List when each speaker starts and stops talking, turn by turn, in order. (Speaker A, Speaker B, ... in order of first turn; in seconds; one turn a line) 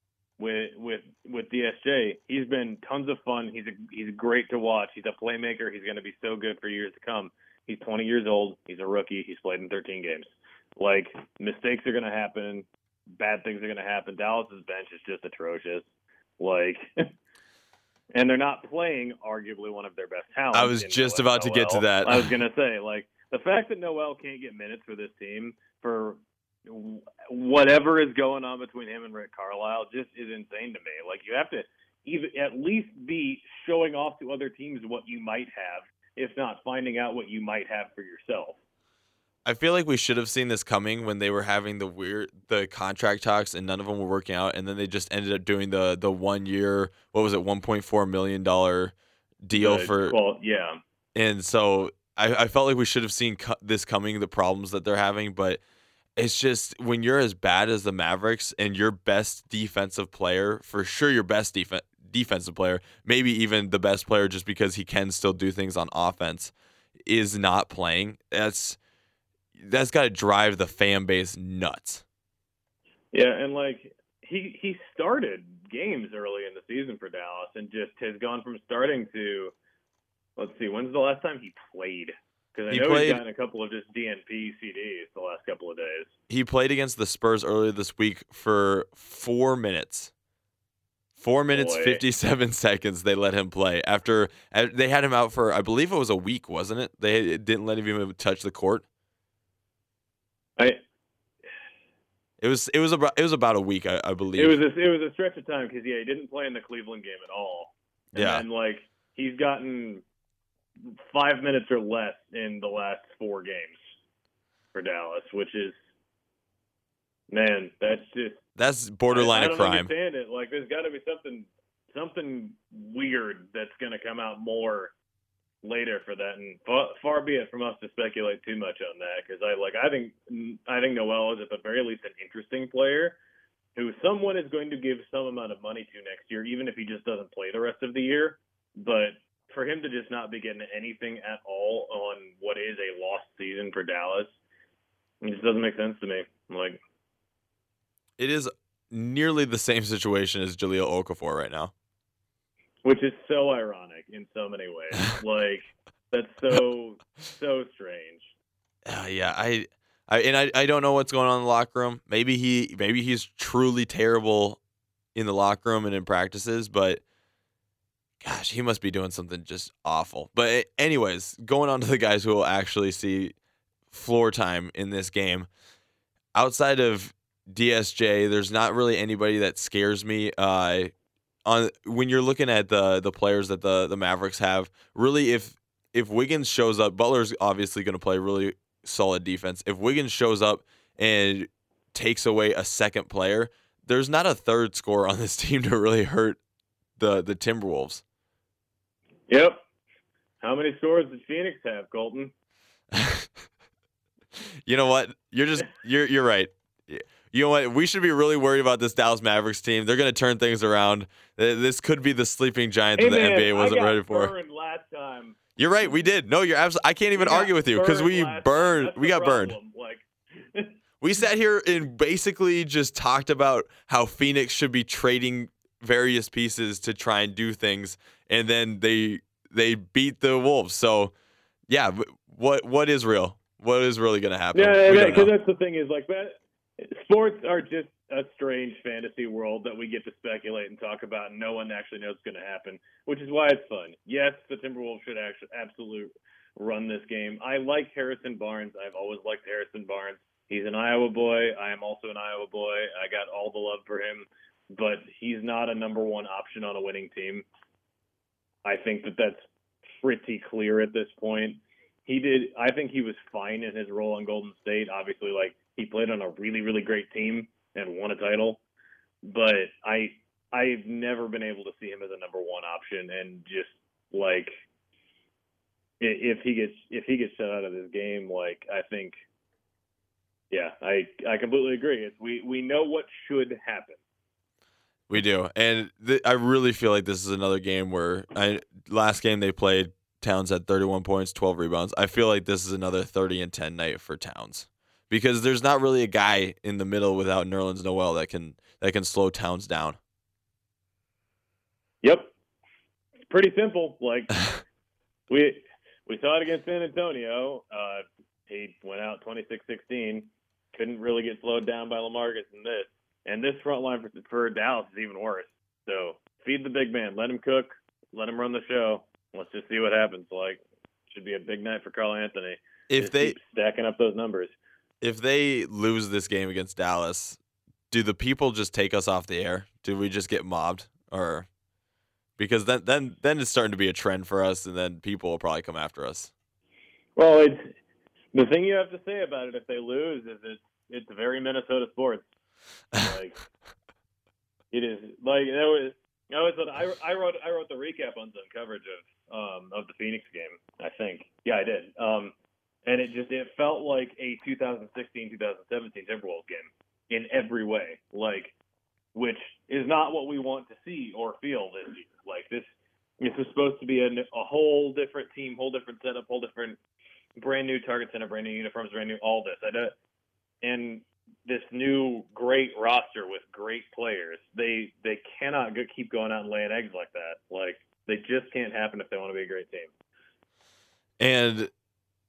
Speaker A: 0.4-15.9
Speaker A: 16.4-17.1
Speaker A: 18.1-38.6
Speaker B: 20.5-22.3
Speaker B: 39.5-48.9
Speaker B: 49.4-50.2
Speaker A: 49.6-50.8
Speaker B: 51.1-55.6
Speaker B: 56.2-66.5
Speaker B: 67.1-68.8
Speaker B: 69.6-72.0
Speaker A: 73.1-79.5
Speaker A: 80.4-86.1
Speaker B: 82.7-83.2
Speaker B: 86.3-90.1
Speaker B: 91.2-98.8
Speaker A: 91.5-92.0
Speaker B: 102.4-104.6
Speaker A: 104.4-110.0
Speaker B: 108.2-108.5
Speaker A: 110.9-113.8
Speaker A: 114.7-115.8
Speaker A: 117.3-118.4
Speaker B: 118.6-119.9
Speaker A: 119.1-124.9
Speaker A: 125.6-133.2
Speaker A: 133.8-144.4
Speaker A: 145.2-146.8
Speaker B: 148.2-151.7
Speaker A: 152.8-158.3
Speaker B: 158.9-164.6
Speaker B: 165.2-167.0
Speaker B: 168.2-173.3
Speaker B: 173.9-175.5
Speaker B: 176.3-180.9
Speaker B: 181.4-196.4
Speaker B: 197.0-198.0
Speaker A: 199.3-199.6
Speaker A: 200.4-202.3
Speaker B: 202.9-203.3
Speaker B: 204.4-214.3
Speaker A: 213.0-215.4
Speaker B: 215.6-219.6
Speaker A: 217.2-220.8
Speaker B: 221.0-231.1
Speaker B: 231.7-235.3
Speaker A: 234.5-257.5
Speaker A: 258.6-259.5
Speaker A: 260.0-268.6
Speaker A: 269.2-274.5
Speaker A: 276.0-279.2
Speaker A: 280.5-284.0
Speaker B: 285.1-300.0
Speaker A: 302.0-302.3
Speaker A: 303.3-304.5
Speaker A: 305.3-324.6
Speaker B: 322.9-323.4
Speaker B: 325.0-327.4
Speaker B: 327.9-331.5
Speaker B: 332.4-336.3
Speaker A: 337.2-337.7
Speaker A: 338.3-342.3
Speaker A: 342.9-343.4
Speaker A: 344.7-352.3
Speaker A: 352.9-358.5
Speaker A: 359.1-366.8
Speaker A: 367.4-369.9
Speaker A: 370.6-379.9
Speaker B: 381.2-381.7